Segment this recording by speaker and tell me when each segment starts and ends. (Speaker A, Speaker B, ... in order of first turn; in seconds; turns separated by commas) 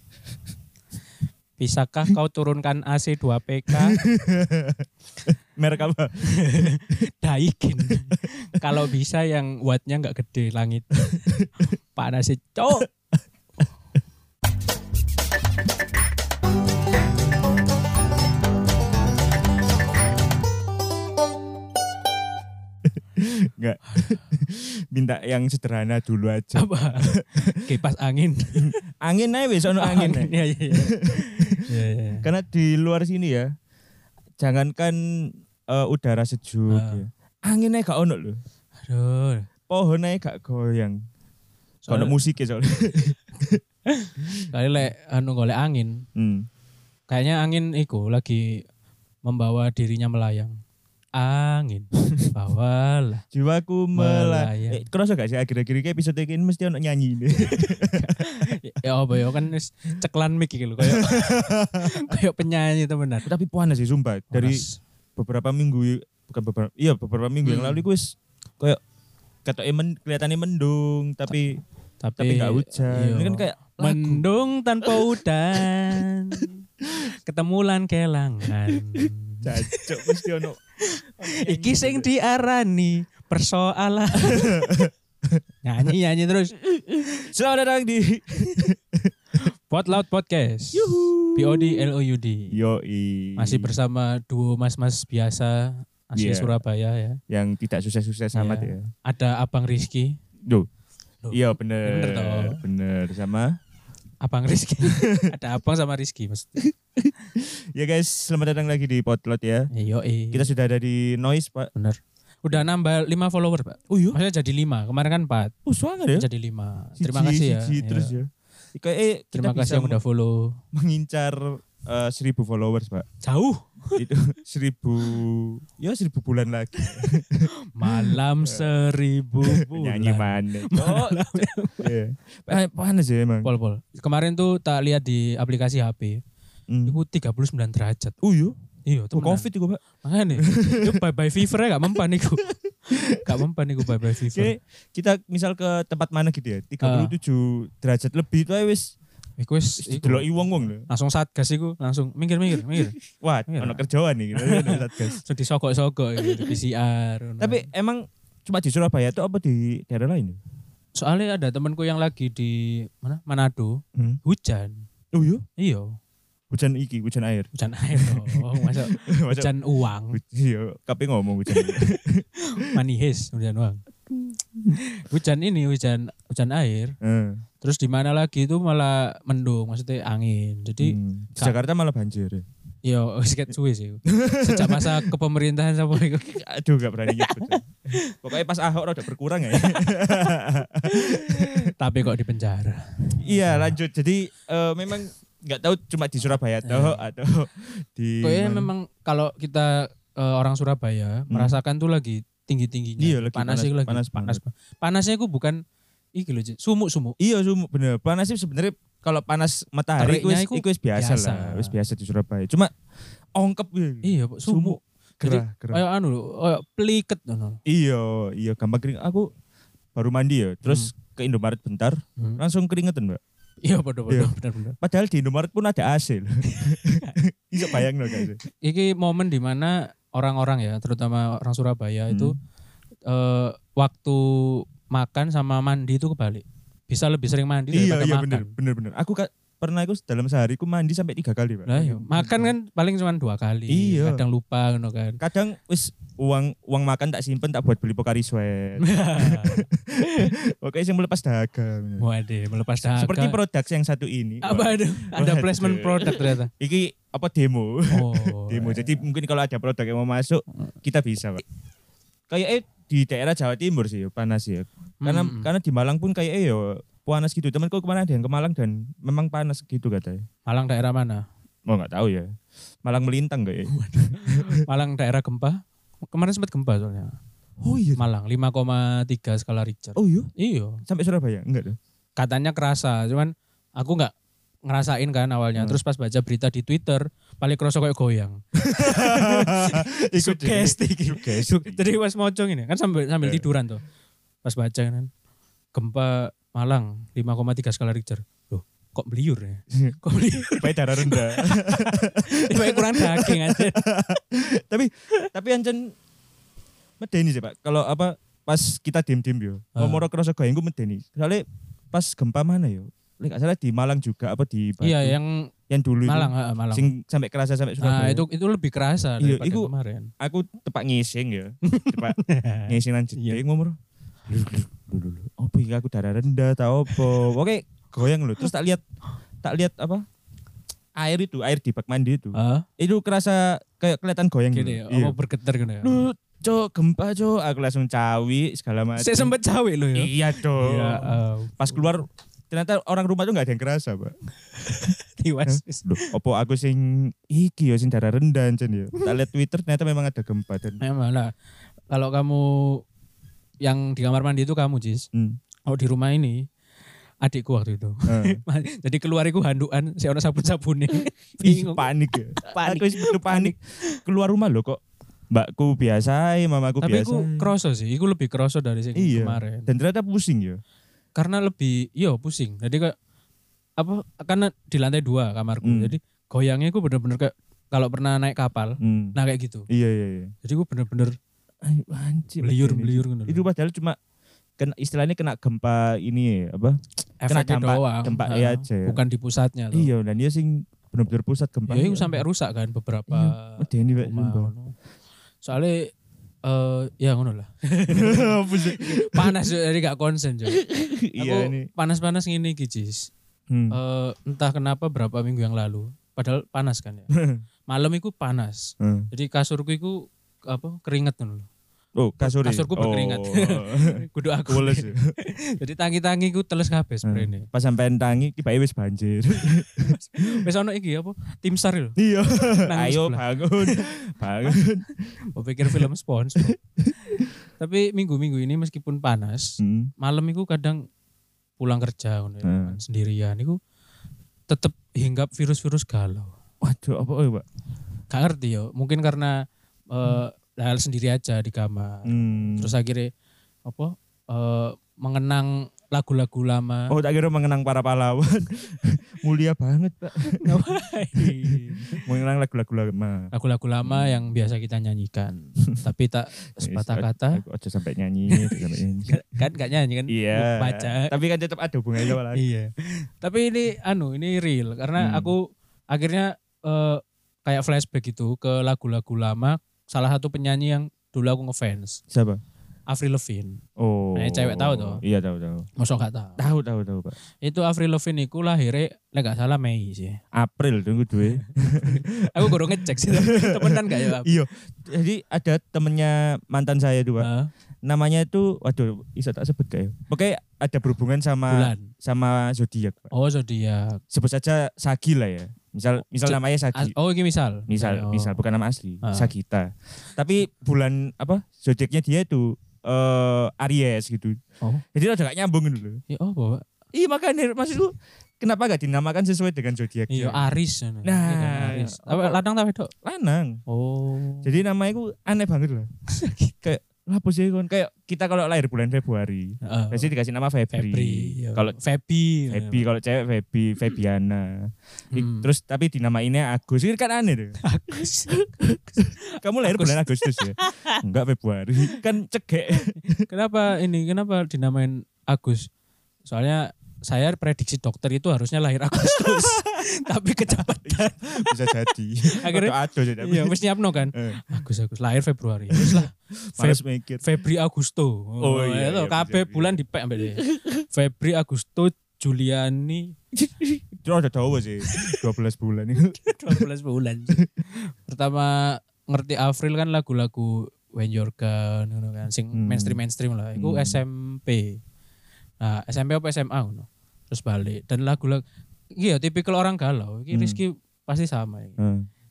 Speaker A: 1.6-4.0, Speaker B: 3.8-6.8, Speaker A: 6.4-12.9, Speaker B: 7.9-8.8, Speaker B: 11.2-11.7, Speaker B: 12.7-13.2, Speaker B: 22.9-27.5, Speaker A: 26.6-28.8, Speaker B: 28.6-31.6, Speaker A: 29.8-32.2, Speaker B: 32.2-33.5, Speaker B: 34.4-35.0, Speaker B: 35.7-38.4, Speaker A: 36.7-37.0, Speaker A: 38.9-39.5, Speaker B: 39.7-41.0, Speaker A: 41.8-42.2, Speaker B: 41.9-43.6, Speaker A: 44.0-46.0, Speaker B: 46.2-46.5, Speaker A: 47.1-48.6, Speaker A: 49.2-50.6, Speaker A: 51.2-53.2, Speaker B: 53.3-58.4, Speaker A: 54.0-54.8, Speaker A: 57.5-63.3, Speaker B: 60.8-62.1, Speaker B: 63.2-64.6, Speaker A: 64.3-64.8, Speaker B: 65.2-68.8, Speaker A: 67.5-67.8, Speaker B: 69.5-71.6, Speaker A: 72.0-76.6, Speaker B: 72.2-74.3, Speaker A: 77.2-80.3, Speaker B: 79.0-80.6, Speaker B: 81.2-82.1, Speaker A: 81.4-84.6, Speaker B: 84.3-85.4, Speaker A: 85.7-86.5, Speaker B: 86.6-89.5, Speaker A: 89.4-92.5, Speaker B: 90.8-91.8, Speaker B: 92.5-93.7, Speaker A: 93.4-97.2, Speaker B: 96.2-96.6, Speaker B: 97.3-98.9, Speaker A: 98.3-100.2, Speaker A: 101.2-102.6, Speaker B: 101.3-103.5, Speaker A: 104.2-106.6, Speaker B: 104.8-105.2, Speaker B: 106.6-109.7, Speaker A: 109.7-110.5, Speaker B: 110.3-111.7, Speaker A: 111.8-115.5, Speaker B: 113.9-114.2, Speaker B: 115.7-116.2, Speaker A: 116.2-118.1, Speaker B: 117.0-120.0, Speaker A: 119.3-120.3, Speaker B: 120.7-123.1, Speaker A: 123.2-124.0, Speaker B: 124.0-128.7, Speaker A: 126.8-127.0, Speaker A: 127.8-131.9, Speaker B: 129.4-133.5, Speaker A: 133.4-136.2, Speaker B: 136.7-137.0, Speaker A: 136.9-138.2, Speaker B: 138.2-138.6, Speaker A: 138.9-144.5, Speaker B: 139.1-139.8, Speaker B: 140.5-141.0, Speaker B: 144.3-149.0, Speaker A: 146.8-147.1, Speaker A: 149.4-153.0, Speaker B: 149.8-150.9, Speaker B: 152.7-155.2, Speaker A: 153.5-157.7, Speaker B: 156.3-156.6, Speaker B: 157.4-160.4, Speaker A: 161.0-164.8, Speaker B: 165.1-165.5, Speaker A: 165.6-165.9, Speaker B: 166.5-169.5, Speaker A: 167.5-170.2, Speaker B: 170.1-172.3, Speaker A: 171.5-171.8, Speaker A: 172.5-173.8, Speaker B: 174.1-174.8, Speaker A: 174.9-176.9, Speaker B: 177.0-177.4, Speaker A: 177.6-181.6, Speaker B: 180.8-182.4, Speaker A: 182.9-186.4, Speaker B: 184.2-184.9, Speaker B: 186.3-191.6, Speaker A: 187.1-188.1, Speaker A: 189.5-190.4, Speaker A: 190.9-193.7, Speaker B: 193.2-198.7, Speaker A: 196.7-197.0, Speaker A: 198.2-205.6, Speaker B: 201.3-201.6, Speaker B: 203.0-204.4, Speaker A: 206.2-207.2, Speaker B: 207.2-212.7, Speaker A: 210.0-211.7, Speaker B: 213.3-215.8, Speaker A: 214.0-217.6, Speaker B: 217.7-219.3, Speaker B: 219.9-223.2, Speaker A: 220.7-220.9, Speaker A: 223.7-224.8, Speaker B: 224.1-228.4, Speaker A: 226.5-232.3, Speaker A: 233.1-238.5, Speaker B: 237.7-242.5, Speaker A: 241.7-245.2, Speaker B: 243.7-244.2, Speaker B: 245.2-252.1, Speaker A: 248.8-250.3, Speaker A: 252.0-253.4, Speaker B: 252.8-261.4, Speaker A: 254.4-256.5, Speaker A: 257.9-259.0, Speaker B: 262.3-270.2, Speaker A: 265.0-265.5, Speaker A: 270.5-271.2, Speaker B: 271.7-272.3, Speaker B: 272.9-274.4, Speaker A: 273.7-277.2, Speaker B: 277.6-278.0, Speaker A: 278.0-280.8, Speaker B: 280.0-280.3, Speaker B: 280.9-281.8, Speaker A: 282.2-284.1, Speaker A: 284.7-293.8, Speaker B: 288.6-291.8, Speaker A: 294.4-295.1, Speaker A: 295.7-303.8, Speaker B: 299.7-300.0, Speaker B: 300.6-305.9, Speaker B: 307.0-315.2, Speaker A: 309.8-310.0, Speaker A: 314.8-315.5, Speaker B: 315.7-318.2, Speaker A: 316.1-316.9, Speaker A: 317.8-320.1, Speaker B: 319.2-323.8, Speaker A: 321.7-323.4, Speaker B: 324.3-328.8, Speaker B: 329.4-330.0, Speaker B: 331.0-335.2, Speaker A: 332.4-332.7, Speaker A: 334.5-336.0, Speaker B: 335.8-339.3, Speaker A: 339.0-341.9, Speaker B: 340.0-344.1, Speaker A: 344.6-345.9, Speaker B: 345.5-350.8, Speaker A: 350.8-351.3, Speaker A: 351.9-352.8, Speaker A: 353.6-355.1, Speaker A: 355.7-356.4, Speaker A: 357.2-361.9, Speaker B: 358.1-358.4, Speaker B: 361.4-364.8, Speaker A: 362.4-364.0, Speaker B: 365.3-367.5, Speaker A: 366.8-369.7, Speaker B: 369.0-370.6, Speaker A: 371.1-372.9, Speaker A: 373.8-379.7, Speaker B: 375.6-375.9, Speaker B: 378.8-379.2, Speaker B: 379.7-380.3, Speaker A: 380.4-381.1, Speaker B: 381.6-384.0, Speaker A: 382.4-383.5, Speaker B: 384.6-389.0, Speaker A: 387.2-389.9, Speaker B: 389.7-392.2, Speaker A: 391.7-394.8, Speaker B: 393.1-394.5, Speaker A: 395.4-395.9, Speaker A: 396.4-400.6, Speaker B: 397.9-399.3, Speaker B: 400.6-401.7, Speaker A: 401.2-403.1, Speaker B: 403.5-403.8, Speaker A: 403.7-407.1, Speaker B: 407.1-407.4, Speaker A: 407.7-410.0, Speaker B: 408.8-409.1, Speaker A: 410.5-411.5, Speaker B: 412.0-413.9, Speaker A: 412.2-417.5, Speaker B: 414.5-415.1, Speaker B: 417.1-420.4, Speaker A: 419.8-422.0, Speaker B: 422.0-425.1, Speaker A: 422.6-423.8, Speaker A: 425.3-430.8, Speaker B: 426.5-427.3, Speaker B: 429.6-429.9, Speaker A: 431.6-433.6, Speaker B: 432.4-432.8, Speaker A: 434.5-436.3, Speaker B: 436.6-437.4, Speaker A: 438.1-439.3, Speaker A: 439.9-443.1, Speaker B: 442.1-442.8, Speaker A: 443.6-446.9, Speaker B: 446.9-450.6, Speaker A: 450.3-452.0, Speaker B: 451.2-453.3, Speaker A: 453.3-457.4, Speaker B: 453.9-454.2, Speaker B: 456.6-459.2, Speaker A: 458.3-461.2, Speaker B: 460.1-462.4, Speaker A: 462.0-472.0, Speaker B: 465.0-465.3, Speaker B: 472.1-472.4, Speaker A: 472.9-473.6, Speaker B: 473.8-475.7, Speaker A: 474.1-475.0, Speaker A: 475.8-476.4, Speaker B: 476.4-477.2, Speaker A: 477.4-480.2, Speaker B: 480.3-487.3, Speaker A: 481.8-484.3, Speaker A: 487.2-487.5, Speaker B: 487.8-493.1, Speaker A: 491.5-491.9, Speaker A: 493.1-494.0, Speaker B: 494.1-496.9, Speaker A: 496.2-498.4, Speaker B: 497.7-504.4, Speaker A: 499.0-499.3, Speaker B: 504.9-506.0, Speaker A: 506.1-506.6, Speaker B: 506.9-510.5, Speaker A: 510.1-512.9, Speaker B: 511.0-512.4, Speaker B: 513.0-513.6, Speaker A: 513.7-514.5, Speaker B: 514.4-515.9, Speaker A: 516.1-516.5, Speaker B: 516.6-521.8, Speaker A: 519.6-520.1, Speaker A: 520.7-522.9, Speaker B: 522.5-527.6, Speaker A: 525.1-525.5, Speaker A: 527.7-531.0, Speaker B: 528.6-533.1, Speaker A: 533.3-535.7, Speaker A: 536.3-541.7, Speaker B: 539.0-539.6, Speaker B: 540.5-543.6, Speaker A: 542.3-550.4, Speaker B: 544.1-544.6, Speaker B: 546.5-547.2, Speaker B: 548.4-549.8, Speaker B: 550.4-550.7, Speaker A: 550.9-553.1, Speaker B: 553.4-556.6, Speaker A: 554.9-555.2, Speaker A: 556.2-557.5, Speaker A: 558.1-564.8, Speaker B: 562.5-563.0, Speaker B: 563.6-564.0, Speaker A: 565.6-568.4, Speaker A: 569.0-571.8, Speaker B: 570.3-570.6, Speaker B: 571.8-572.0